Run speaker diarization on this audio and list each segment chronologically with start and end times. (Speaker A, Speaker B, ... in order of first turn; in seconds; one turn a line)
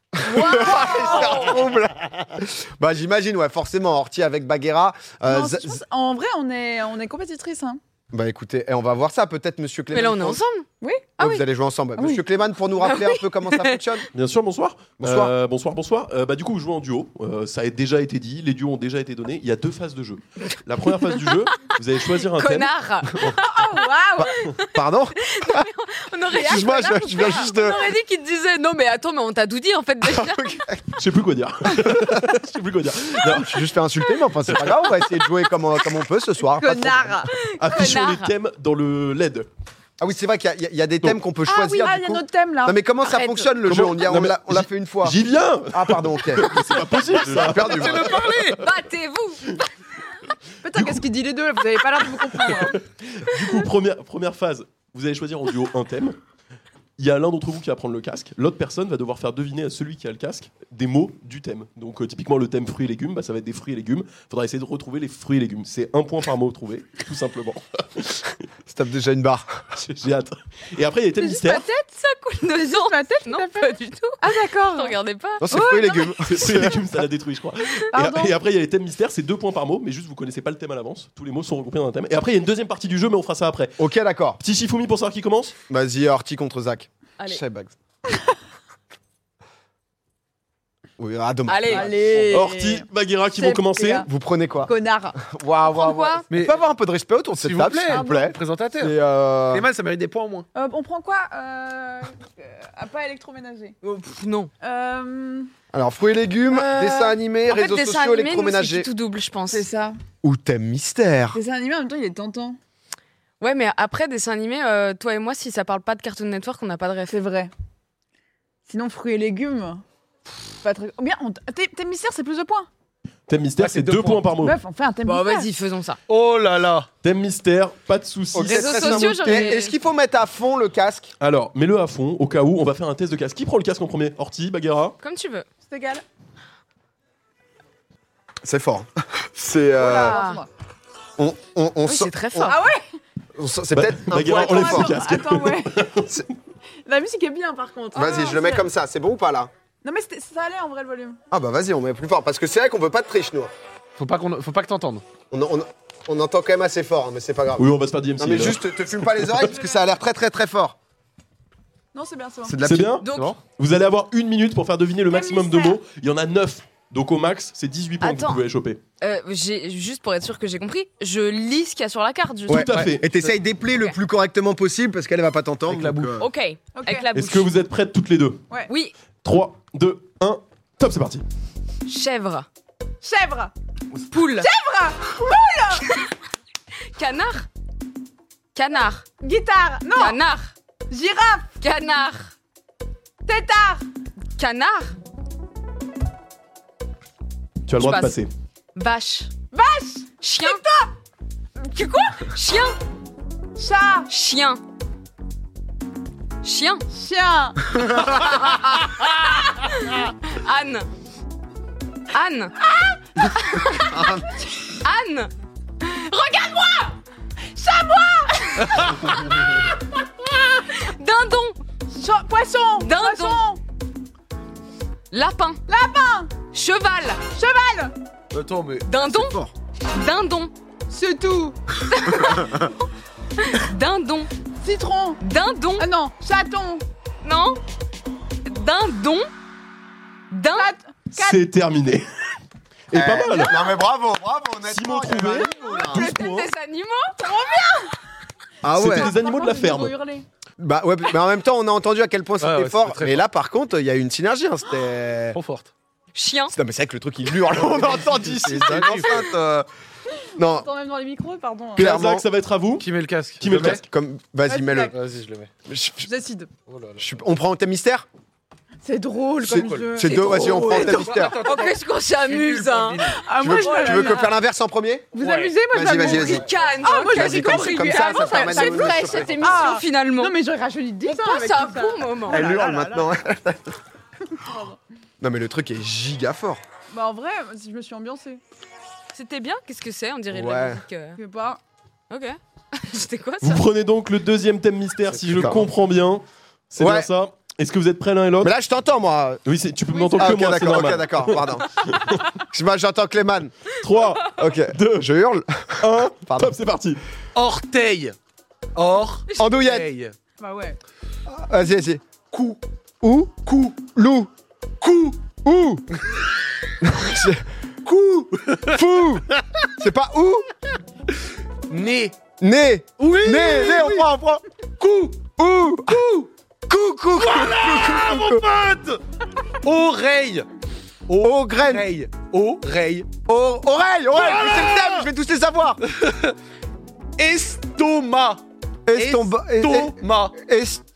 Speaker A: 0.2-5.8
Speaker B: 0.2-1.6
Speaker C: 0.5-1.3
Speaker C: 5.3-7.8
Speaker A: 8.1-10.4
Speaker B: 9.9-10.7
Speaker C: 10.8-11.4
Speaker A: 11.2-14.1
Speaker B: 12.8-13.8
Speaker D: 14.1-22.7
Speaker A: 15.0-15.3
Speaker B: 22.3-23.6
Speaker C: 23.2-24.4
Speaker B: 24.2-24.7
Speaker A: 24.7-25.7
Speaker B: 25.2-30.6
Speaker C: 26.3-27.8
Speaker A: 26.4-27.8
Speaker A: 30.1-30.8
Speaker D: 31.0-33.7
Speaker A: 31.9-32.3
Speaker A: 33.2-37.3
Speaker C: 36.5-37.3
Speaker B: 37.3-38.3
Speaker D: 37.6-39.5
Speaker A: 40.0-45.2
Speaker C: 41.5-42.8
Speaker B: 43.1-43.5
Speaker D: 43.6-48.6
Speaker A: 45.7-48.2
Speaker E: 47.5-48.6
Speaker B: 48.5-49.6
Speaker C: 50.6-52.8
Speaker D: 52.4-56.2
Speaker D: 57.0-68.4
Speaker A: 68.7-69.8
Speaker D: 69.7-71.7
Speaker C: 71.2-71.7
Speaker B: 71.2-75.9
Speaker C: 72.6-75.0
Speaker A: 75.4-76.9
Speaker C: 75.5-76.2
Speaker D: 76.3-83.8
Speaker C: 77.9-78.3
Speaker A: 83.8-84.4
Speaker D: 84.4-85.5
Speaker A: 85.7-87.8
Speaker B: 87.2-87.4
Speaker A: 91.0-92.2
Speaker B: 91.5-91.9
Speaker C: 91.7-92.9
Speaker D: 92.3-94.1
Speaker C: 93.4-94.1
Speaker A: 94.1-99.7
Speaker C: 94.7-95.2
Speaker B: 95.6-96.3
Speaker E: 96.3-96.6
Speaker E: 97.3-99.0
Speaker C: 97.9-98.3
Speaker E: 99.5-100.5
Speaker C: 100.5-103.8
Speaker B: 104.0-104.5
Speaker C: 104.6-105.5
Speaker A: 105.7-108.9
Speaker B: 106.6-109.7
Speaker C: 109.5-110.0
Speaker A: 110.2-111.4
Speaker C: 111.3-112.6
Speaker B: 113.4-117.2
Speaker C: 117.1-117.5
Speaker C: 118.7-119.8
Speaker C: 120.6-122.7
Speaker D: 123.3-124.6
Speaker E: 123.6-124.3
Speaker C: 124.4-125.5
Speaker B: 125.1-126.0
Speaker E: 126.1-126.9
Speaker D: 127.0-129.1
Speaker A: 128.3-131.1
Speaker B: 128.5-129.8
Speaker C: 129.3-129.5
Speaker D: 131.2-135.0
Speaker B: 135.0-135.5
Speaker C: 135.7-136.0
Speaker A: 138.4-140.2
Speaker C: 139.8-140.5
Speaker B: 140.0-140.4
Speaker A: 141.2-142.5
Speaker B: 141.8-142.6
Speaker C: 142.5-143.0
Speaker A: 143.4-144.9
Speaker D: 143.7-146.2
Speaker C: 144.2-145.9
Speaker C: 146.8-148.7
Speaker A: 147.9-149.5
Speaker C: 149.8-151.2
Speaker A: 151.3-153.5
Speaker E: 154.0-155.0
Speaker A: 155.3-157.7
Speaker D: 157.6-159.5
Speaker A: 158.2-160.8
Speaker C: 161.9-162.6
Speaker A: 162.4-162.9
Speaker D: 162.6-168.8
Speaker B: 163.0-163.4
Speaker E: 163.1-163.4
Speaker C: 165.1-165.8
Speaker B: 168.0-168.4
Speaker B: 169.0-172.7
Speaker A: 172.5-176.3
Speaker D: 172.5-173.0
Speaker E: 175.7-176.2
Speaker B: 176.2-177.5
Speaker C: 176.8-177.1
Speaker D: 177.1-178.5
Speaker B: 178.7-178.9
Speaker D: 179.2-181.2
Speaker B: 181.9-182.5
Speaker C: 183.0-183.5
Speaker B: 184.1-184.5
Speaker C: 184.4-185.9
Speaker B: 185.8-186.1
Speaker B: 186.9-187.5
Speaker B: 188.6-189.1
Speaker C: 189.2-190.2
Speaker B: 189.9-190.5
Speaker C: 190.9-191.5
Speaker B: 191.6-192.3
Speaker C: 193.3-193.8
Speaker B: 194.4-195.0
Speaker D: 197.7-198.3
Speaker B: 197.8-198.2
Speaker B: 198.8-199.3
Speaker C: 199.5-200.9
Speaker B: 200.2-200.6
Speaker C: 201.7-202.3
Speaker B: 202.1-202.8
Speaker C: 203.6-204.1
Speaker B: 204.1-204.6
Speaker B: 206.4-206.8
Speaker C: 206.9-207.8
Speaker A: 207.7-208.4
Speaker B: 208.1-210.9
Speaker B: 212.1-212.6
Speaker B: 213.2-214.1
Speaker A: 213.8-214.3
Speaker B: 214.8-216.9
Speaker C: 217.5-219.2
Speaker B: 218.9-219.7
Speaker B: 220.2-221.6
Speaker C: 221.9-223.6
Speaker B: 222.8-223.4
Speaker B: 225.1-225.6
Speaker C: 225.7-226.3
Speaker B: 226.5-227.2
Speaker C: 227.3-227.9
Speaker E: 228.3-228.9
Speaker B: 228.8-230.5
Speaker A: 229.1-229.5
Speaker C: 230.9-231.6
Speaker B: 231.8-232.7
Speaker B: 233.4-234.3
Speaker C: 234.6-235.2
Speaker B: 235.2-235.9
Speaker C: 235.8-236.8
Speaker B: 237.2-237.6
Speaker B: 238.5-239.3
Speaker B: 240.3-240.7
Speaker C: 240.6-241.4
Speaker D: 241.1-242.1
Speaker D: 242.9-243.7
Speaker A: 242.9-246.1
Speaker D: 244.7-246.5
Speaker B: 245.7-247.6
Speaker C: 247.2-247.9
Speaker A: 248.6-249.1
Speaker D: 248.7-250.0
Speaker C: 248.8-250.3
Speaker A: 250.6-255.4
Speaker E: 252.4-253.2
Speaker E: 255.3-255.7
Speaker B: 256.1-256.6
Speaker A: 256.5-259.7
Speaker D: 257.9-259.1
Speaker E: 258.1-259.1
Speaker A: 260.4-260.7
Speaker C: 260.4-261.9
Speaker A: 261.8-262.3
Speaker D: 261.8-262.9
Speaker E: 262.8-263.8
Speaker D: 263.4-263.8
Speaker A: 263.5-264.9
Speaker C: 264.5-264.9
Speaker E: 264.9-265.5
Speaker A: 265.7-266.1
Speaker C: 266.0-266.5
Speaker E: 266.7-267.0
Speaker A: 267.0-268.1
Speaker C: 268.8-271.5
Speaker A: 269.4-271.4
Speaker B: 270.1-274.3
Speaker E: 270.1-273.3
Speaker C: 273.1-274.3
Speaker A: 273.4-275.1
Speaker C: 275.1-283.1
Speaker E: 275.2-275.6
Speaker A: 275.7-279.7
Speaker B: 276.0-280.3
Speaker B: 281.1-282.5
Speaker A: 282.3-283.7
Speaker C: 284.3-284.8
Speaker A: 285.2-286.6
Speaker C: 286.9-288.4
Speaker B: 289.1-291.2
Speaker A: 290.3-290.8
Speaker C: 291.2-291.6
Speaker B: 292.1-293.6
Speaker D: 293.4-298.5
Speaker A: 295.3-295.7
Speaker A: 296.8-297.1
Speaker A: 298.4-299.4
Speaker D: 299.4-302.2
Speaker C: 299.9-300.4
Speaker A: 300.2-303.6
Speaker D: 303.8-305.1
Speaker A: 304.3-306.5
Speaker D: 305.8-307.0
Speaker E: 307.4-308.1
Speaker E: 308.8-310.1
Speaker A: 309.4-309.9
Speaker C: 310.4-310.8
Speaker A: 311.3-312.0
Speaker E: 312.3-312.6
Speaker A: 313.0-314.3
Speaker E: 314.8-315.3
Speaker A: 315.4-315.9
Speaker A: 316.8-317.4
Speaker E: 317.9-318.8
Speaker A: 318.7-319.3
Speaker E: 319.3-319.6
Speaker A: 319.8-320.5
Speaker E: 321.7-322.2
Speaker A: 322.4-324.4
Speaker E: 323.0-324.1
Speaker E: 324.8-325.3
Speaker A: 325.4-326.1
Speaker E: 325.9-326.3
Speaker A: 326.7-328.5
Speaker E: 327.2-329.0
Speaker E: 329.6-330.5
Speaker E: 331.1-333.1
Speaker A: 331.2-331.9
Speaker A: 333.3-335.8
Speaker E: 334.1-335.1
Speaker E: 335.8-336.4
Speaker E: 337.2-338.4
Speaker A: 338.9-340.8
Speaker E: 338.9-340.4